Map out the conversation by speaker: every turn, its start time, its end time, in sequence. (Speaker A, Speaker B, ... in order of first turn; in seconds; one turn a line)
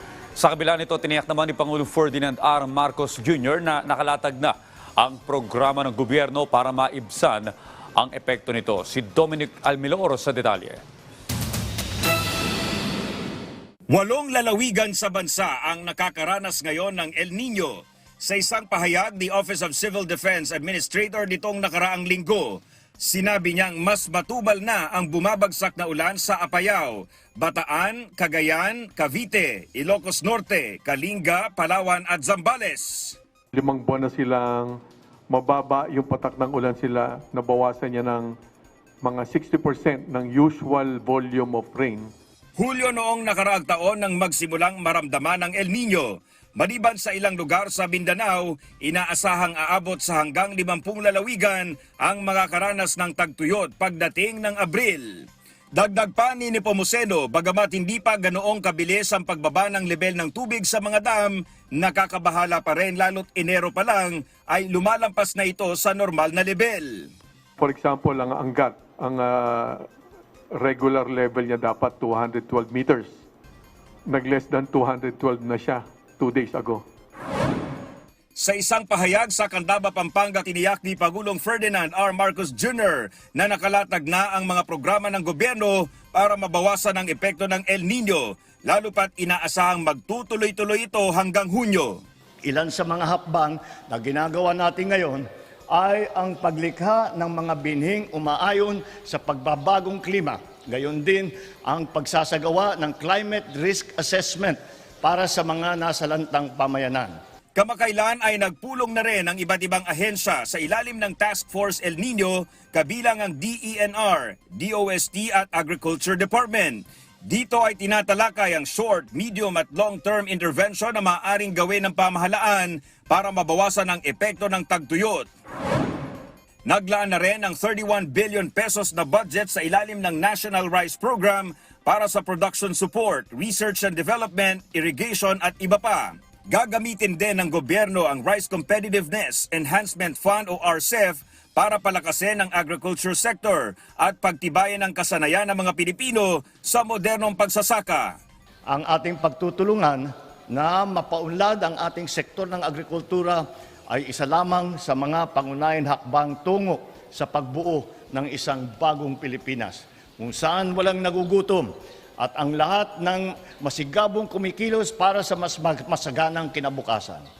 Speaker A: 0.4-10.8
Speaker B: 13.9-33.2
Speaker C: 33.5-34.8
Speaker C: 35.3-38.3
Speaker C: 39.0-42.1
Speaker B: 42.6-67.1
Speaker C: 67.6-69.8
Speaker C: 70.5-73.1
Speaker C: 74.1-76.8
Speaker B: 78.4-92.0
Speaker D: 92.4-107.1
Speaker B: 107.5-125.3
Speaker B: 126.7-148.2
Speaker D: 148.7-161.7
Speaker D: 162.2-167.3